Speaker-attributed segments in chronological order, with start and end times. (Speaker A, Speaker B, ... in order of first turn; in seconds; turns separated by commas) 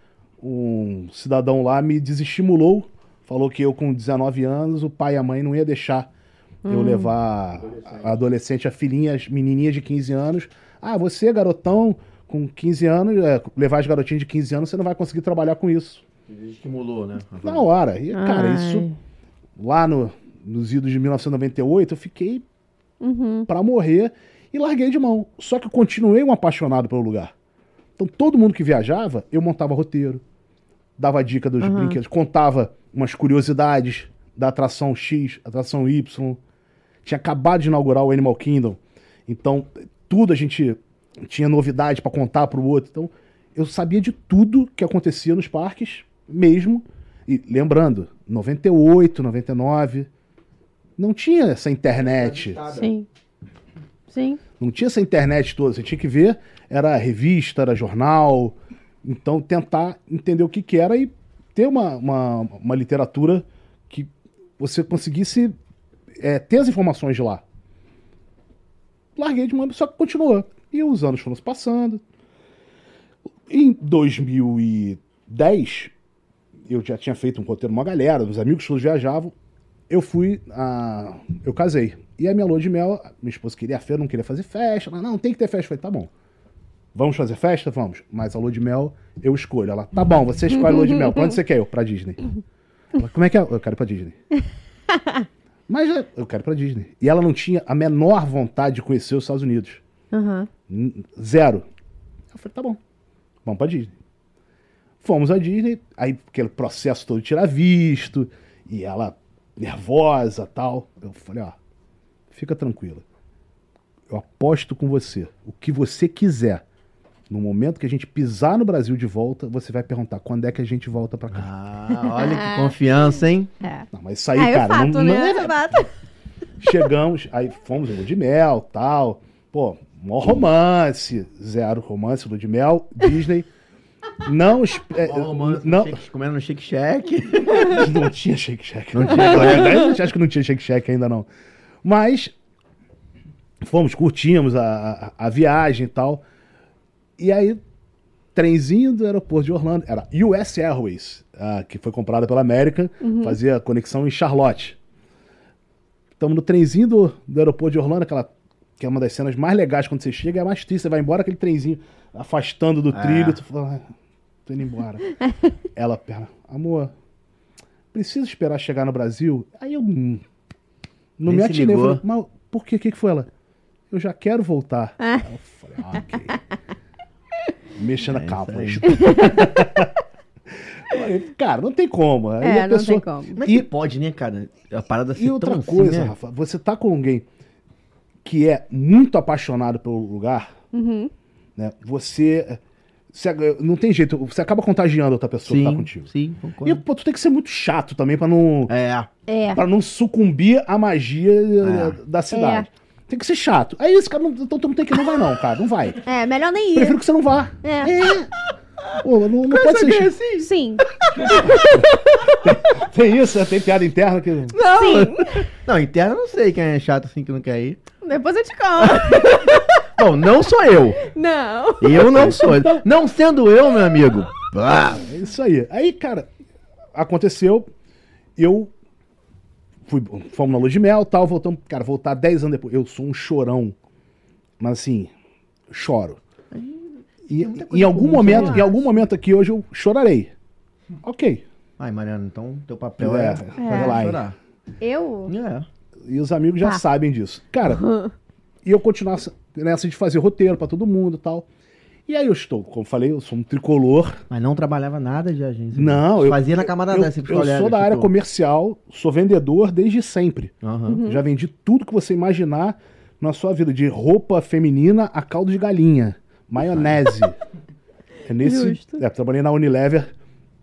Speaker A: 0.4-6.1, Speaker B: 6.6-7.1, Speaker A: 6.7-16.0, Speaker C: 7.6-8.2, Speaker C: 16.3-17.7, Speaker A: 17.4-18.9, Speaker B: 18.1-18.9, Speaker A: 19.6-22.4, Speaker B: 23.0-23.5, Speaker A: 23.5-27.3, Speaker A: 28.0-30.2, Speaker A: 31.0-36.4, Speaker B: 31.6-32.0, Speaker A: 37.0-50.1, Speaker A: 51.0-52.6, Speaker C: 51.9-52.9, Speaker B: 52.7-53.1, Speaker B: 54.1-54.4, Speaker A: 54.6-65.5, Speaker A: 66.2-67.4, Speaker A: 69.2-72.0, Speaker A: 73.5-75.9, Speaker A: 76.7-79.3, Speaker A: 79.9-86.1, Speaker A: 86.9-92.2, Speaker A: 92.9-94.2, Speaker A: 95.7-99.8, Speaker B: 100.1-100.5, Speaker A: 100.7-101.7, Speaker A: 102.3-102.8, Speaker A: 103.4-103.9, Speaker A: 105.0-111.6, Speaker A: 112.3-113.0, Speaker A: 114.1-116.6, Speaker A: 117.3-121.5, Speaker C: 121.3-123.5, Speaker B: 122.0-122.7, Speaker B: 123.6-125.9, Speaker A: 123.9-125.6, Speaker A: 126.6-133.5, Speaker A: 134.2-136.0, Speaker C: 134.9-137.9, Speaker A: 137.6-141.3, Speaker C: 138.9-139.9, Speaker A: 141.8-142.3, Speaker A: 143.6-146.2, Speaker A: 147.2-147.6, Speaker A: 148.3-154.8, Speaker B: 153.0-153.4, Speaker A: 156.2-163.9, Speaker C: 162.9-163.4, Speaker A: 164.4-165.1, Speaker A: 165.8-166.9, Speaker A: 167.9-170.2, Speaker A: 171.2-173.3, Speaker C: 171.2-172.0, Speaker A: 173.9-176.4, Speaker B: 175.0-175.2, Speaker A: 177.8-179.9, Speaker C: 178.0-178.9, Speaker B: 178.9-179.8, Speaker A: 180.9-183.7, Speaker B: 182.4-183.3, Speaker C: 183.3-186.1, Speaker A: 185.2-187.2, Speaker A: 188.2-190.5, Speaker B: 190.7-191.1, Speaker A: 191.6-192.6, Speaker A: 193.1-196.1, Speaker C: 195.4-196.8, Speaker A: 196.6-198.7, Speaker C: 198.7-199.1, Speaker B: 199.3-199.6, Speaker A: 199.5-206.0, Speaker C: 201.6-202.0, Speaker B: 202.3-202.7, Speaker B: 206.0-207.0, Speaker A: 206.7-208.3, Speaker B: 207.6-207.9, Speaker C: 208.9-210.5, Speaker A: 209.0-210.1, Speaker B: 210.4-211.8, Speaker C: 211.2-211.8, Speaker A: 212.4-214.6, Speaker C: 214.5-217.8, Speaker B: 214.6-215.5, Speaker B: 218.0-219.7, Speaker C: 218.8-221.0, Speaker B: 221.0-222.3, Speaker C: 221.8-225.1, Speaker A: 222.0-222.6, Speaker A: 224.9-226.3, Speaker A: 226.9-227.7, Speaker A: 228.4-228.7, Speaker A: 229.9-233.7, Speaker A: 234.6-235.1, Speaker A: 235.7-236.2, Speaker C: 236.5-238.8, Speaker A: 237.3-240.3, Speaker B: 238.2-238.7, Speaker A: 241.0-241.4, Speaker C: 241.8-244.3, Speaker A: 243.0-244.2, Speaker B: 243.6-244.1, Speaker B: 244.8-245.3, Speaker C: 245.3-245.7, Speaker A: 246.1-247.8, Speaker B: 247.8-248.1, Speaker A: 248.6-251.4, Speaker A: 252.1-254.2, Speaker C: 254.3-258.1, Speaker A: 255.7-267.4, Speaker C: 260.6-261.0, Speaker B: 260.9-261.2, Speaker A: 268.2-270.1, Speaker B: 268.4-269.0